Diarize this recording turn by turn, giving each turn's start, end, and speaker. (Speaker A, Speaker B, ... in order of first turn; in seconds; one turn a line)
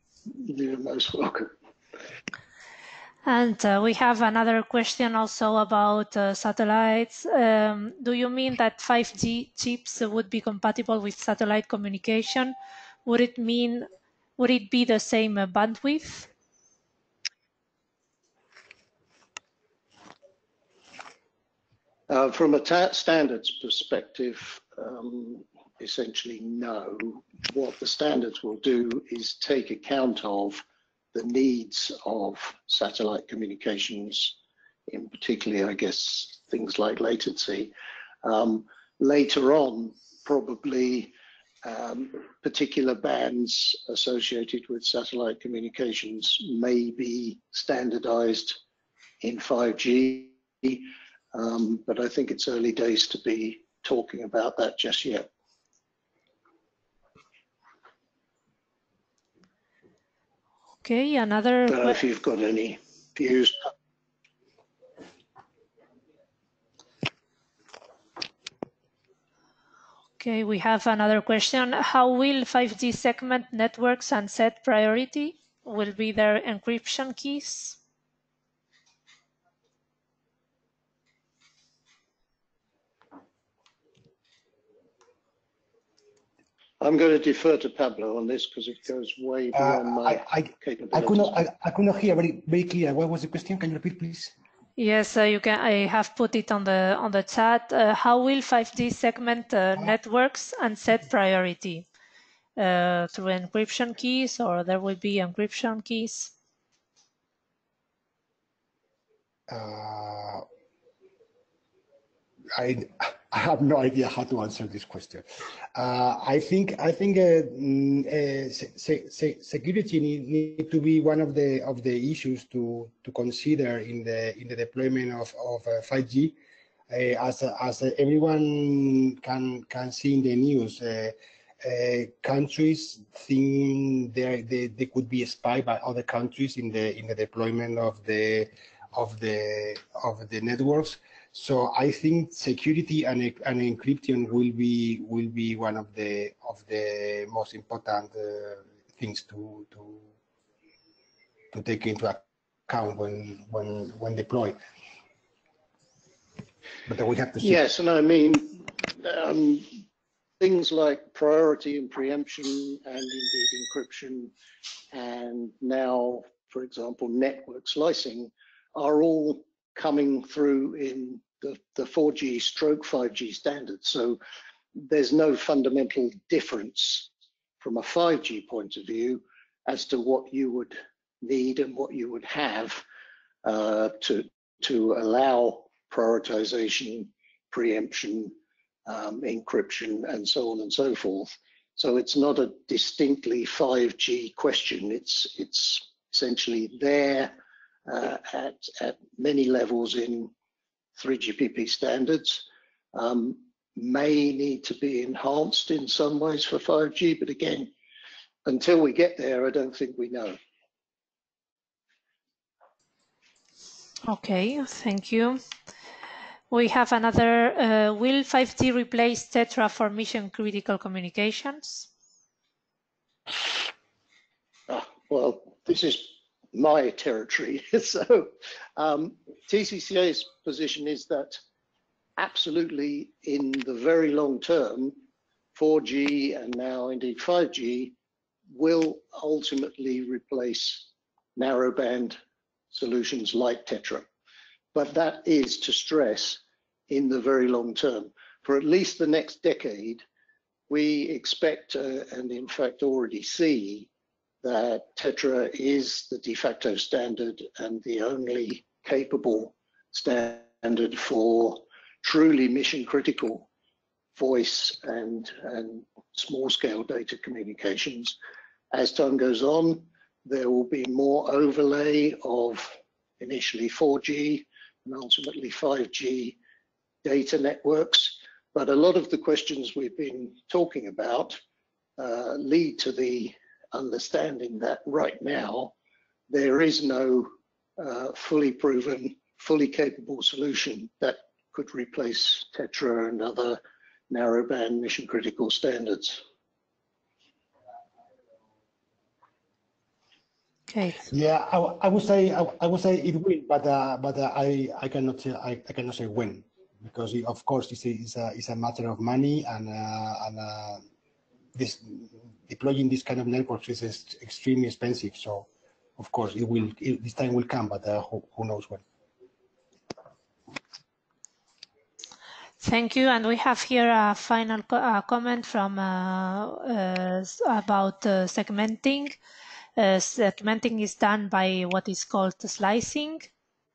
Speaker A: 0.3-1.5
Speaker B: 3.2-12.6
Speaker B: 13.1-16.3
Speaker A: 22.1-30.6
Speaker A: 31.1-34.4
Speaker A: 34.9-48.6
Speaker A: 49.2-55.3
Speaker B: 60.8-62.0
Speaker A: 61.7-63.6
Speaker B: 70.2-77.8
Speaker A: 86.8-91.4
Speaker C: 89.5-94.3
Speaker B: 94.8-101.8
Speaker B: 102.6-106.3
Speaker C: 109.5-110.5
Speaker C: 112.5-126.4
Speaker C: 126.9-150.1
Speaker C: 151.5-154.6
Speaker C: 156.9-157.6
Speaker A: 157.4-159.8
Speaker A: 160.4-164.3
Speaker A: 164.9-174.2
Speaker A: 174.8-182.8
Speaker A: 183.4-188.3
Speaker A: 188.9-197.3
Speaker A: 197.9-200.3
Speaker A: 201.0-207.7
Speaker A: 208.5-210.4
Speaker B: 214.1-215.4
Speaker B: 216.5-221.9
Speaker A: 224.7-231.4
Speaker A: 232.2-235.0
Speaker A: 235.6-238.0
Speaker A: 238.5-242.2
Speaker A: 242.7-244.1
Speaker A: 244.7-250.0
Speaker A: 250.7-253.9
Speaker A: 254.4-263.5
Speaker A: 264.1-268.2
Speaker A: 268.7-276.4
Speaker A: 277.0-281.4
Speaker A: 282.0-285.7
Speaker A: 286.3-296.2
Speaker B: 300.7-301.0
Speaker C: 301.0-310.8
Speaker C: 311.6-318.8
Speaker B: 322.6-329.1
Speaker B: 329.8-333.3